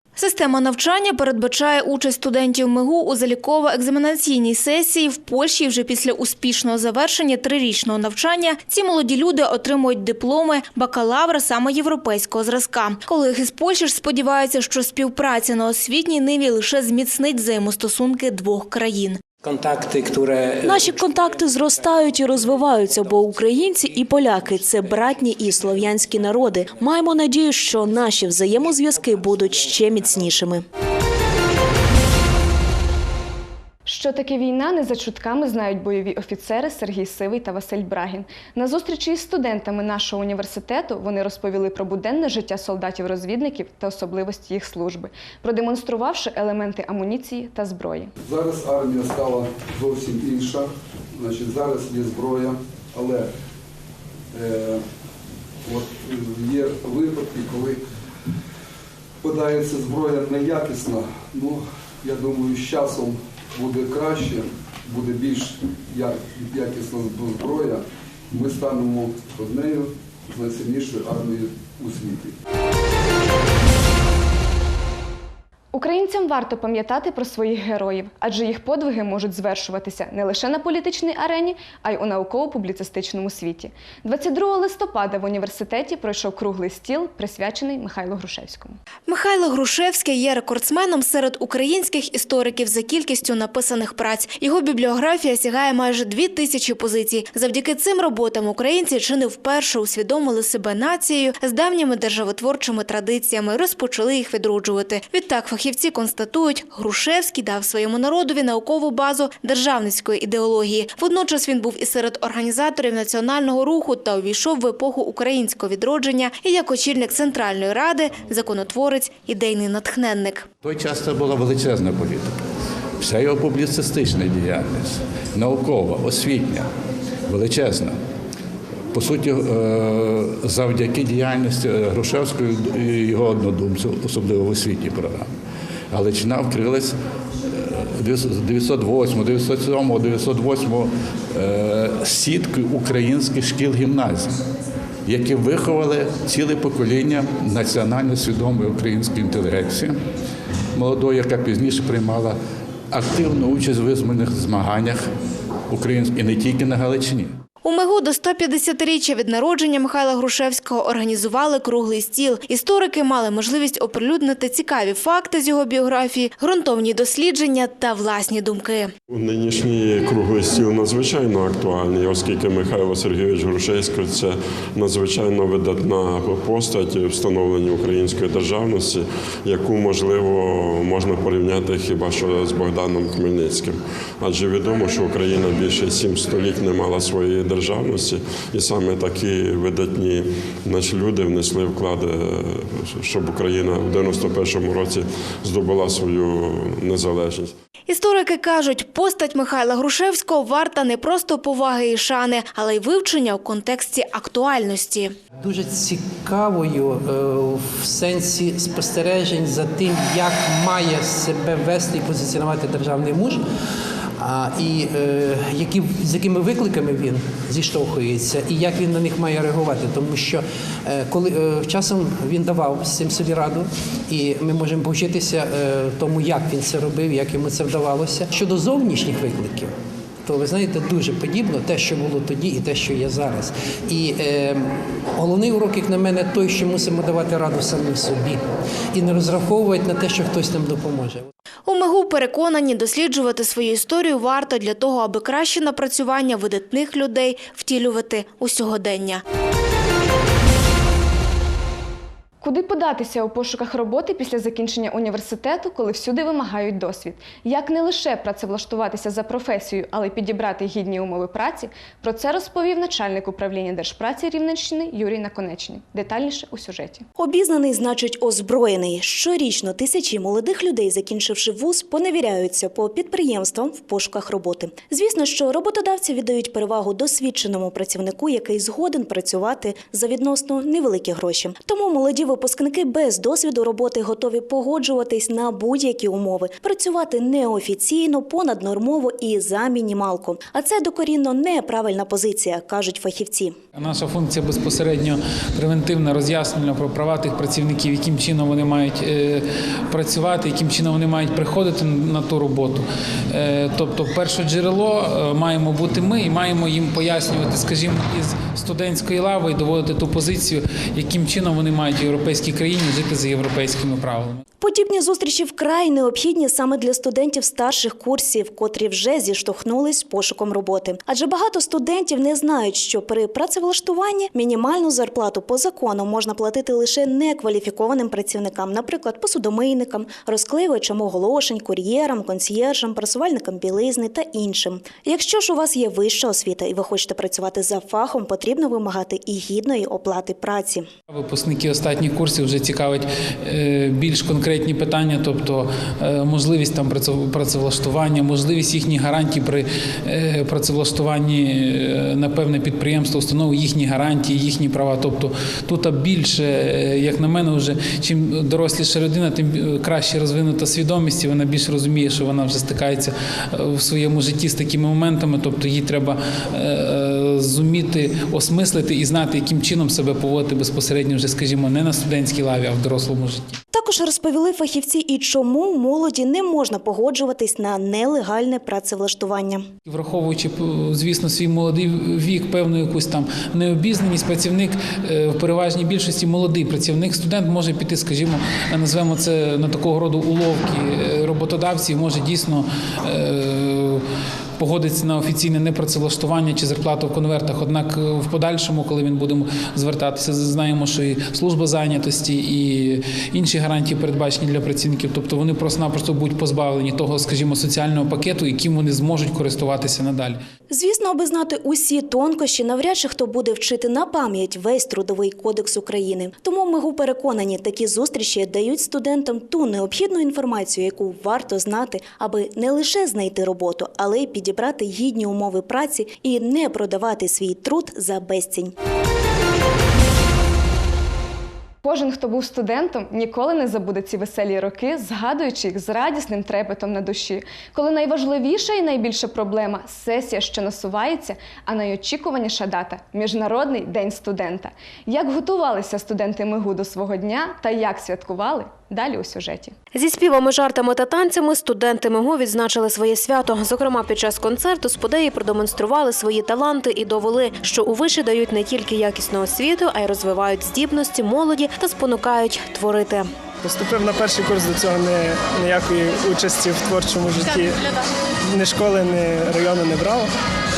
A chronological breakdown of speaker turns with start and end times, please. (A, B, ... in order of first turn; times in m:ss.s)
0:00.2-0:19.2 A
0:20.6-0:30.6 B
0:33.8-0:48.1 C
0:48.2-0:53.3 D
0:54.3-0:54.8 D
0:55.6-0:57.8 D
0:59.2-1:12.3 D
1:15.7-1:28.8 C
1:29.1-2:00.5 A
2:00.6-2:02.4 E
2:03.0-2:06.7 E
2:07.3-2:08.0 E
2:08.9-2:15.3 E
2:15.9-2:16.9 E
2:17.4-2:24.4 E
2:25.0-2:30.0 E
2:30.7-2:32.4 E
2:32.9-2:35.1 E
2:35.7-2:37.3 E
2:37.6-2:48.9 A
2:49.1-3:17.5 F
3:17.9-3:25.1 A
3:25.4-3:33.4 G
3:34.2-3:49.7 G
3:50.2-3:58.4 G
3:58.9-4:01.2 G
4:01.6-4:09.2 A
4:12.4-4:27.0 C
4:27.2-4:53.5 B
4:53.8-5:14.4 H
5:14.6-5:40.8 B
5:41.1-6:13.6 H
6:13.7-6:19.6 B
6:19.8-6:34.0 H
6:34.6-6:50.4 H
6:50.7-7:08.7 B
7:11.8-7:29.7 C
7:29.9-7:43.3 I
7:43.6-7:47.8 J
7:48.5-7:50.3 J